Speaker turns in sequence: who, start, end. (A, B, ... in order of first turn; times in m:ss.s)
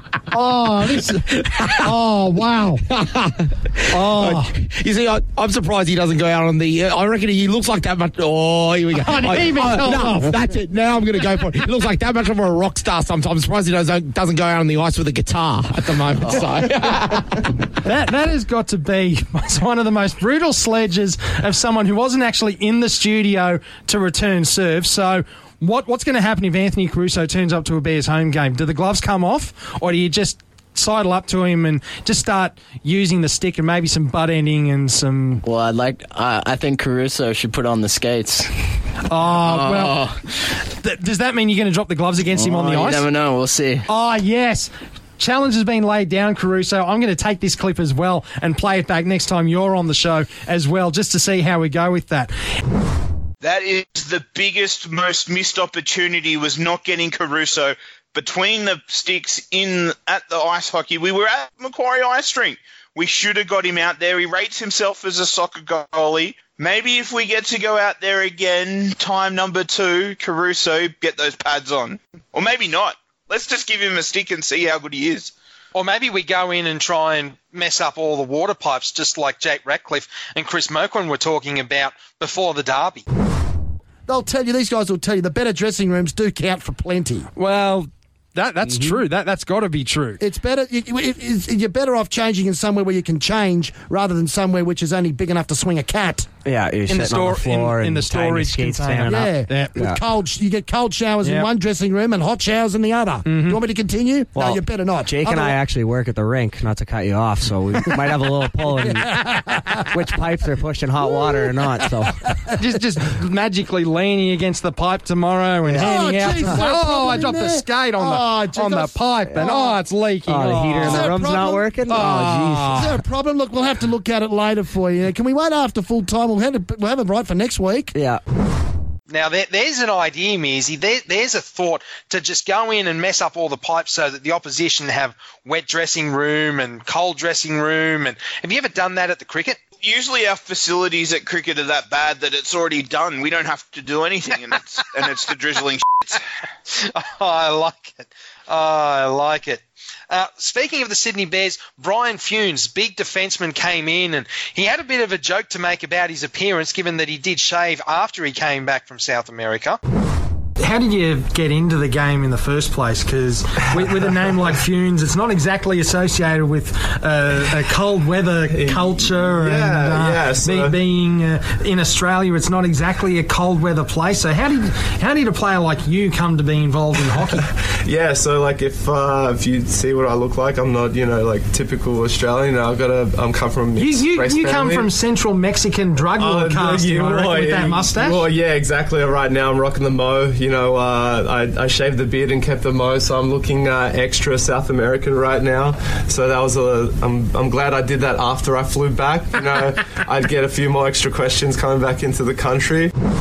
0:00.3-0:17.4 A
0:03.9-0:04.5 B
0:09.0-0:10.5 B
0:17.8-0:35.4 B
0:35.4-0:40.2 C
0:39.1-0:40.1 B
0:40.7-0:43.1 B
0:42.3-0:43.8 C
0:43.9-0:52.3 B
0:53.4-1:15.3 D
1:15.7-1:23.0 E
1:24.1-1:27.3 F
1:27.4-1:30.2 B
1:28.6-1:29.0 G
1:30.2-1:36.3 F
1:36.4-1:40.0 G
1:36.9-1:39.9 B
1:39.1-1:45.6 F
1:41.2-1:41.5 B
1:43.2-1:43.6 B
1:44.3-1:49.2 G
1:48.7-1:50.0 F
1:49.9-1:52.2 G
1:51.0-1:51.5 F
1:52.5-2:01.2 B
1:55.7-1:59.8 F
1:55.7-1:56.4 G
2:00.2-2:02.7 G
2:00.8-2:07.9 F
2:01.9-2:03.0 B
2:07.9-2:08.2 G
2:09.1-2:19.6 E
2:19.8-2:26.2 D
2:26.7-2:39.8 E
2:40.6-2:57.4 B
2:43.8-2:44.1 H
2:48.5-2:50.8 H
2:57.4-3:04.9 H
3:03.8-3:08.2 B
3:06.2-3:22.9 H